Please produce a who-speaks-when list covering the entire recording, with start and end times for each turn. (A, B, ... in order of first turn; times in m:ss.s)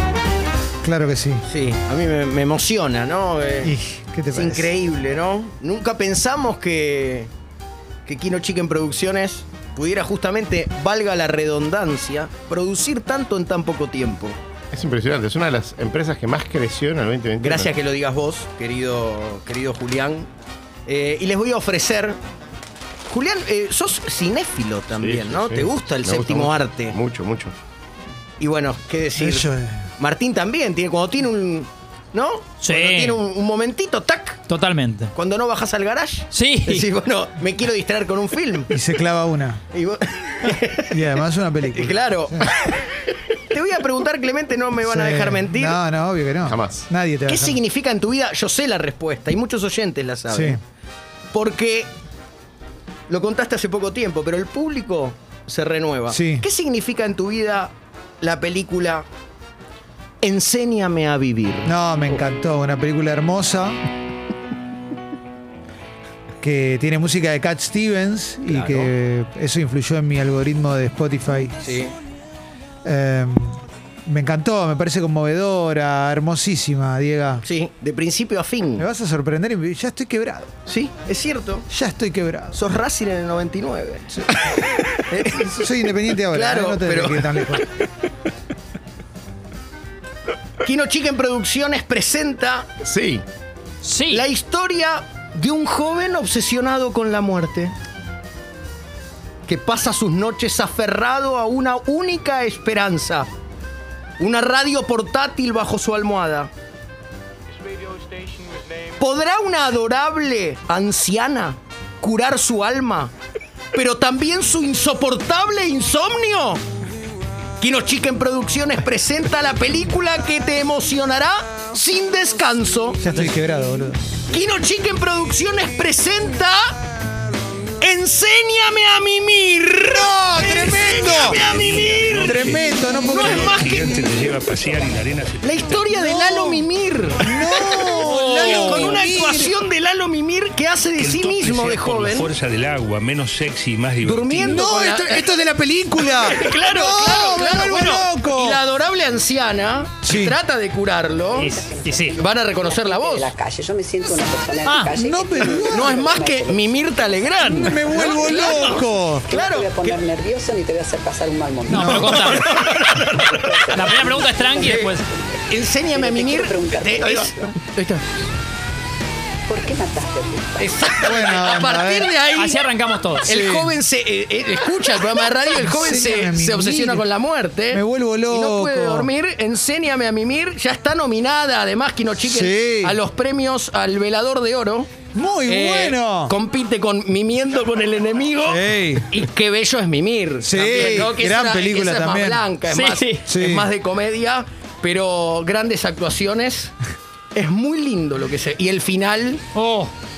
0:00.8-0:01.4 A
0:01.5-0:03.8 B
0:03.6-0:04.7 A
0:04.3-0:07.3 B
0:08.1-0:14.4 B
0:14.7-0:17.7 C
0:17.4-0:20.3 B
0:20.9-0:22.2 B
0:23.1-0:27.0 B
0:25.0-0:27.6 C
0:28.4-0:34.4 B
0:29.2-0:29.8 A
0:32.6-0:33.2 D
0:34.5-0:35.1 D
0:35.1-0:38.7 B
0:36.3-0:36.9 D
0:38.7-0:39.6 A
0:39.7-0:42.8 B
0:40.9-0:42.5 A
0:43.5-0:45.8 B
0:44.8-0:47.6 A
0:46.5-0:46.9 C
0:47.3-0:50.6 B
0:50.3-0:50.6 A
0:51.3-0:51.9 B
0:53.1-0:59.1 B
0:56.1-0:56.4 A
1:00.2-1:02.2 B
1:01.6-1:03.8 A
1:06.4-1:11.6 A
1:08.5-1:08.9 B
1:11.6-1:11.9 B
1:12.8-1:17.4 A
1:17.4-1:18.9 B
1:18.8-1:20.5 A
1:20.7-1:21.7 B
1:21.7-1:22.6 A
1:22.5-1:27.6 B
1:25.2-1:27.7 A
1:30.6-1:32.7 B
1:32.8-1:33.2 C
1:33.8-1:34.2 D
1:34.1-1:37.7 B
1:39.5-1:43.3 B
1:44.2-1:46.5 B
1:49.0-1:53.1 B
1:53.7-1:56.6 B
1:57.6-2:03.2 B
2:03.0-2:04.0 A
2:04.3-2:06.8 B
2:07.8-2:14.2 B
2:09.9-2:11.4 A
2:11.2-2:16.0 E
2:12.2-2:13.6 A
2:15.4-2:17.2 B
2:16.0-2:16.7 A
2:17.2-2:19.5 A
2:18.0-2:19.0 D
2:18.0-2:22.3 B
2:21.0-2:24.6 E
2:24.0-2:25.3 B
2:24.4-2:28.6 A
2:26.0-2:31.5 B
2:30.0-2:30.4 A
2:31.4-2:32.2 D
2:31.4-2:38.4 F
2:32.2-2:33.3 B
2:34.6-2:35.0 D
2:35.0-2:36.1 A
2:35.6-2:40.0 B
2:37.4-2:39.3 A
2:39.3-2:42.2 F
2:41.7-2:42.6 D
2:41.7-2:42.4 A
2:41.8-2:44.0 B
2:43.2-2:45.2 F
2:43.7-2:45.0 D
2:44.6-2:44.9 B
2:45.5-2:48.0 B
2:45.9-2:47.4 F
2:49.5-2:50.8 F
2:50.6-2:52.6 B
2:51.0-2:52.1 A
2:52.4-2:53.3 D
2:53.3-3:04.9 B
2:53.3-2:53.8 A
2:55.5-2:57.0 A
2:57.7-2:59.1 A
3:02.2-3:03.0 A
3:05.1-3:06.4 A
3:05.5-3:16.7 B
3:08.4-3:09.1 A
3:10.4-3:12.4 A
3:12.7-3:13.2 D
3:13.3-3:13.7 A
3:17.3-3:19.4 B
3:19.6-3:19.9 D